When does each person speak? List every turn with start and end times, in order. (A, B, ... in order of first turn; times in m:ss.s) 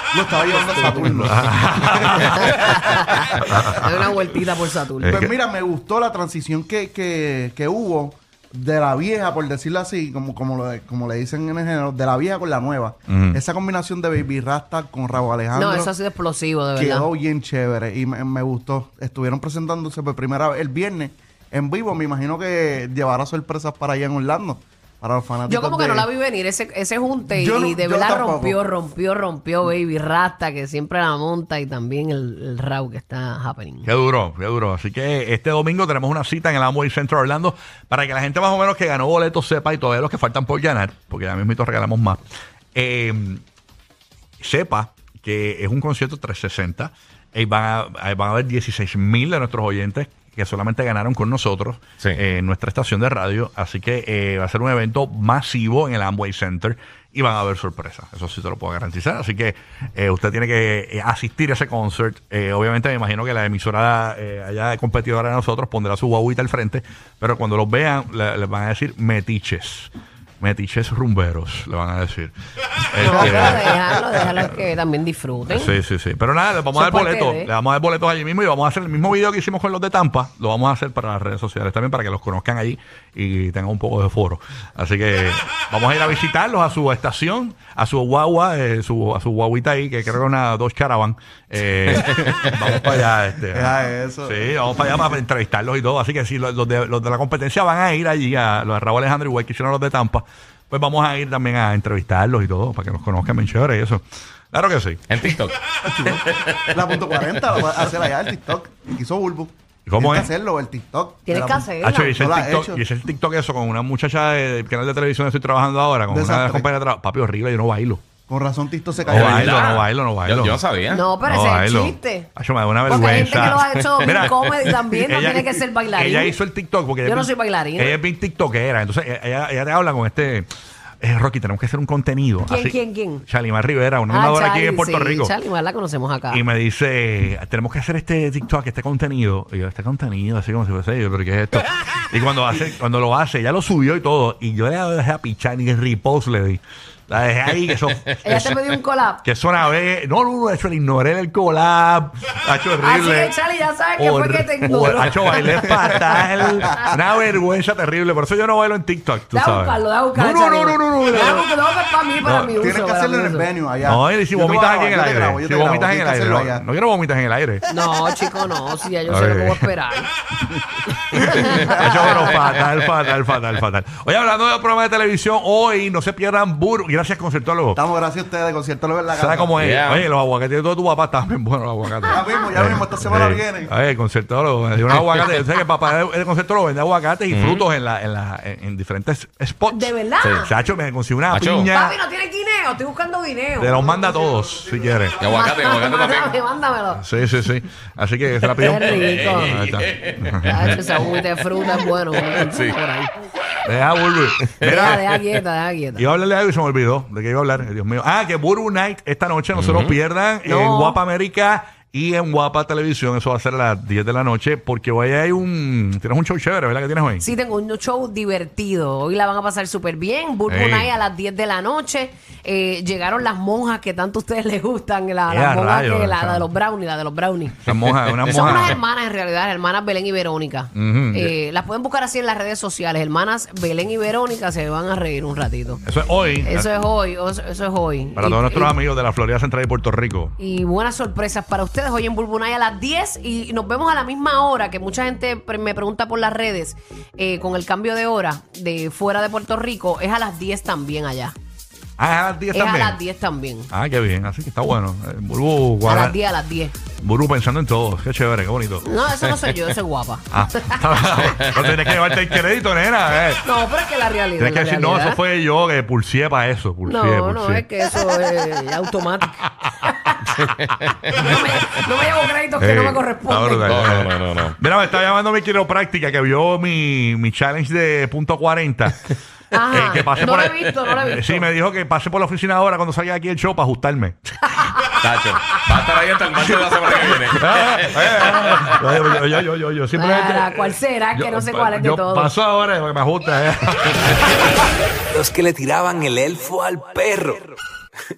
0:00.1-0:03.2 A
0:00.5-0:01.2 B
0:01.0-0:02.7 C
0:02.1-0:05.3 B
0:03.3-0:04.1 C
0:05.0-0:05.3 C
0:05.1-0:15.9 A
0:13.1-0:13.4 C
0:15.5-0:17.1 B
0:16.8-0:26.1 A
0:25.5-0:33.9 B
0:27.3-0:28.6 A
0:33.8-0:42.2 C
0:42.8-0:43.4 C
0:44.4-1:14.5 C
1:13.0-1:15.7 B
1:13.1-1:13.6 A
1:15.5-1:45.1 C
1:16.8-1:17.5 B
1:33.5-1:34.6 A
1:45.1-1:47.9 D
1:45.8-1:52.8 A
1:49.9-1:50.3 C
1:51.3-1:52.2 B
1:51.8-1:58.0 C
1:56.1-1:56.7 A
1:58.3-1:59.7 A
1:59.1-2:00.6 C
1:59.1-2:01.0 D
2:00.9-2:02.3 B
2:01.2-2:10.5 C
2:02.8-2:06.4 B
2:03.1-2:04.5 D
2:07.0-2:08.0 B
2:11.0-2:15.3 C
2:12.5-2:13.2 B
2:14.1-2:16.4 B
2:16.3-2:28.6 C
2:28.2-2:29.2 B
2:29.2-2:33.4 C
2:32.8-2:35.8 B
2:34.0-2:41.5 C
2:35.6-2:36.9 A
2:39.3-2:43.5 B
2:42.2-2:42.6 C
2:42.6-2:46.6 A
2:43.8-2:47.6 C
2:47.7-2:50.1 B
2:49.1-2:49.7 C
2:51.1-2:57.8 C
2:51.2-2:52.3 A
2:51.2-2:51.7 B
2:52.2-2:52.5 D
2:57.8-2:59.6 A
2:59.1-3:12.0 C
2:59.6-3:00.1 D
3:02.0-3:02.4 B
3:02.1-3:03.7 A
3:04.9-3:05.4 D
3:07.3-3:07.6 D
3:09.7-3:10.5 B
3:11.3-3:11.7 D
3:11.7-3:14.2 B
3:13.6-3:15.2 C
3:15.2-3:16.3 D
3:15.2-3:17.0 B
3:17.0-3:20.8 C
3:18.4-3:22.8 D
3:18.6-3:19.6 B
3:20.4-3:23.1 B
3:23.6-3:25.0 C
3:24.5-3:25.2 D
3:24.6-3:26.0 B
3:26.0-3:37.3 C
3:29.5-3:30.0 D
3:30.4-3:31.0 B
3:37.2-3:47.6 B
3:40.5-3:40.9 C
3:45.3-3:46.5 C
3:47.6-3:48.8 C
3:48.1-3:48.6 D
3:48.3-3:55.8 B
3:50.7-3:51.3 C
3:55.8-3:56.7 C
3:56.4-3:58.8 B
3:58.2-4:00.3 C
4:00.4-4:11.4 B
4:12.0-4:13.0 C
4:12.5-4:13.7 B
4:13.7-4:16.2 C
4:15.8-4:16.7 B
4:17.0-4:18.9 C
4:18.8-4:20.9 B
4:19.2-4:19.6 D
4:20.3-4:23.4 C
4:21.3-4:22.2 D
4:23.4-4:25.2 B
4:24.4-4:27.7 C
4:26.8-4:30.2 B
4:30.3-4:31.6 D
4:31.1-4:33.8 B
4:32.6-4:39.1 C
4:33.6-4:34.6 D
4:39.5-4:41.5 B
4:39.7-4:44.9 C
4:45.0-4:48.8 D
4:47.4-4:54.6 C
4:49.9-4:52.3 B
4:55.2-4:57.5 E
4:55.3-4:55.5 C